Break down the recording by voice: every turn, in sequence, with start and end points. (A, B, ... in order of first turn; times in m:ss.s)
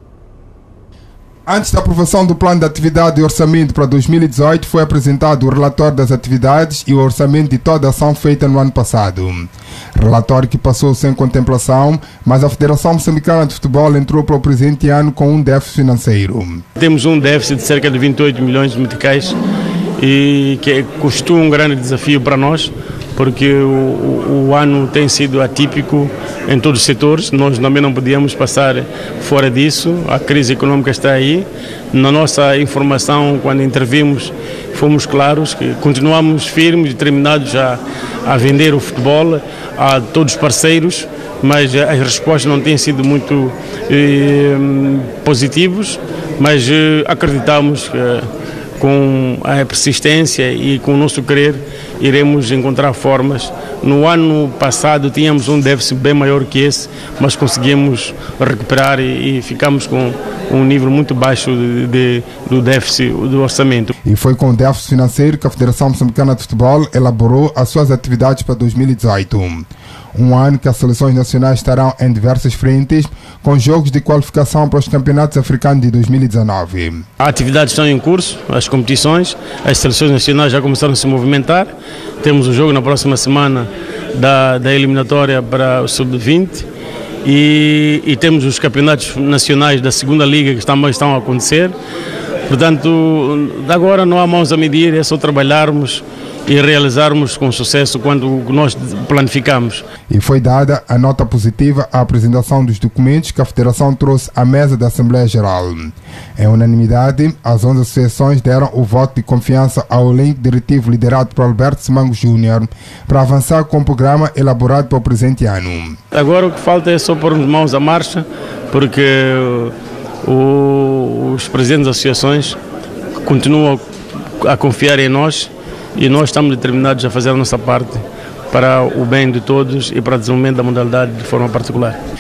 0:01.5-0:16.6 A
0:16.8-0:19.4 B
0:20.0-1:03.9 B
1:04.0-1:17.0 A
1:17.2-1:26.7 B
1:27.2-1:31.8 B
1:32.5-1:39.9 B
1:40.1-1:56.0 A
1:56.1-2:02.6 B
2:03.2-2:03.8 B
2:04.4-2:12.0 B